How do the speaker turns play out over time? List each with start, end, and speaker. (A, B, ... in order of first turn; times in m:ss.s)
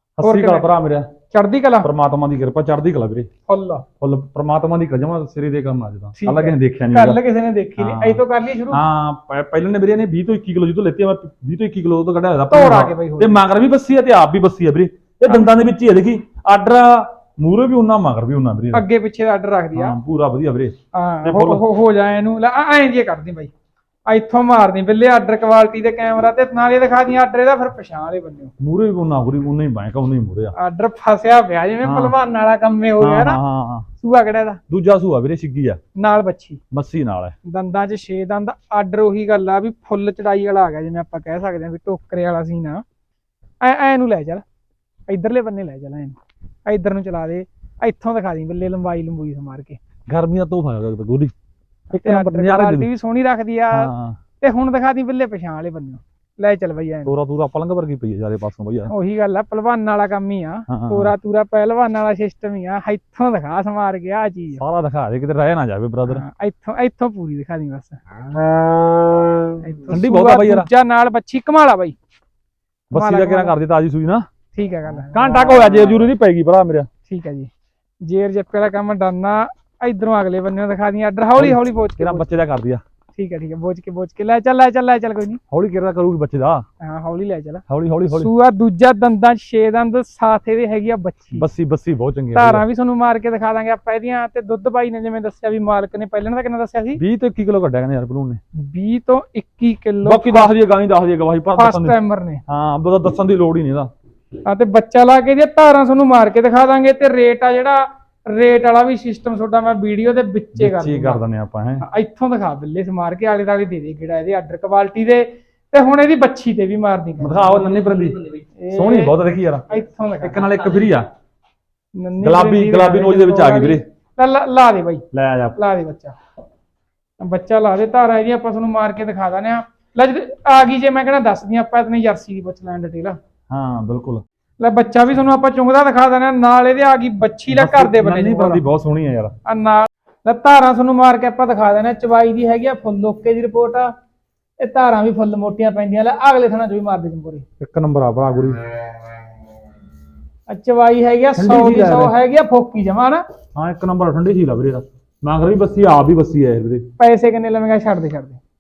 0:00.2-0:01.1 A
0:00.2-0:00.7 B
0:01.3-0:01.9 B
0:01.8-0:03.3 A
0:03.5-0:03.8 B
0:04.0-0:07.2 A
0:06.2-0:08.8 B
0:07.8-0:18.8 A
0:12.5-0:13.4 B
0:18.7-0:20.0 B
0:19.8-0:21.6 A
0:20.9-0:23.5 B
0:24.1-0:28.5 B
0:28.6-0:30.5 A
0:30.6-0:33.4 B
0:31.8-0:32.2 A
0:33.0-0:33.9 A
0:34.0-0:34.6 B
0:34.7-0:35.8 A
0:36.0-0:36.6 B
0:36.7-0:37.4 A
0:37.4-0:42.8 B
0:43.6-0:44.4 B
0:45.1-0:49.8 B
0:50.1-0:51.3 A
0:51.9-0:52.9 A
0:51.9-0:57.1 B
0:53.7-0:54.2 A
0:57.1-0:58.9 A
0:58.9-1:04.6 B
1:00.7-1:01.1 A
1:04.6-1:06.2 A
1:06.1-1:08.0 B
1:09.6-1:12.0 B
1:09.9-1:10.7 A
1:12.9-1:14.2 A
1:12.9-1:13.5 B
1:14.5-1:16.0 B
1:15.1-1:16.9 A
1:17.1-1:17.5 B
1:18.0-1:22.3 B
1:21.4-1:22.8 A
1:23.2-1:25.4 B
1:25.5-1:26.6 A
1:26.8-1:31.4 B
1:27.7-1:28.3 A
1:31.4-1:32.6 A
1:32.3-1:37.0 B
1:37.0-1:38.4 A
1:38.6-1:40.5 B
1:40.0-1:42.0 A
1:41.6-1:42.4 B
1:42.5-1:43.9 A
1:44.4-1:51.2 B
1:50.6-1:51.8 A
1:51.8-1:57.6 B
1:57.2-1:59.6 A
1:58.6-2:00.5 B
2:00.2-2:01.1 A
2:02.0-2:05.0 B
2:02.2-2:03.8 A
2:05.1-2:05.6 A
2:05.6-2:06.2 B
2:07.2-2:13.2 B
2:13.5-2:14.2 A
2:14.6-2:18.6 B
2:17.5-2:19.4 A
2:19.4-2:23.9 B
2:24.6-2:27.4 B
2:27.6-2:28.6 A
2:30.5-2:33.2 B
2:31.4-2:32.1 A
2:33.6-2:36.9 A
2:37.0-2:38.4 B